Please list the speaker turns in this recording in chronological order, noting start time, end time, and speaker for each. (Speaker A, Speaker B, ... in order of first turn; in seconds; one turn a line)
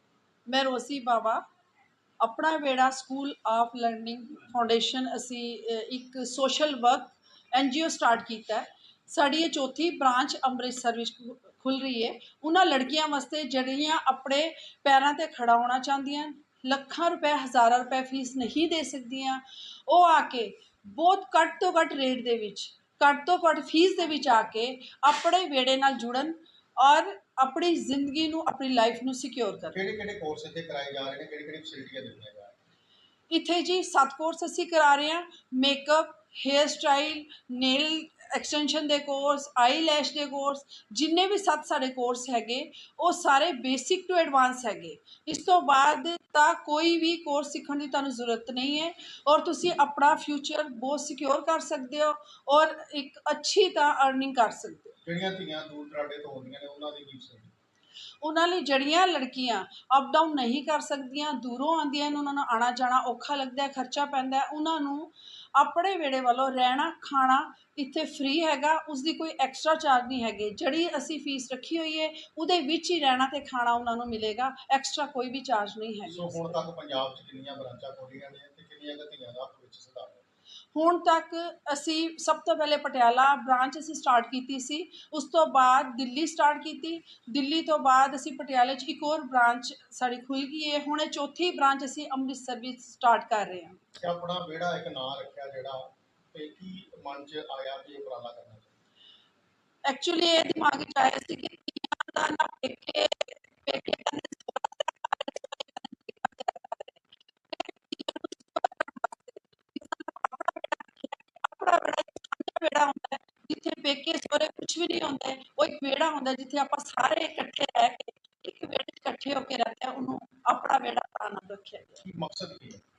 Speaker A: 0.5-1.4
Speaker A: 2.2-29.8
Speaker B: 29.7-32.5
Speaker A: 33.3-54.9
Speaker B: 55.0-57.5
Speaker A: 58.2-76.7
Speaker B: 76.1-80.2
Speaker A: 80.7-93.8
Speaker B: 94.0-98.8
Speaker A: 99.8-122.0
Speaker B: 122.0-122.8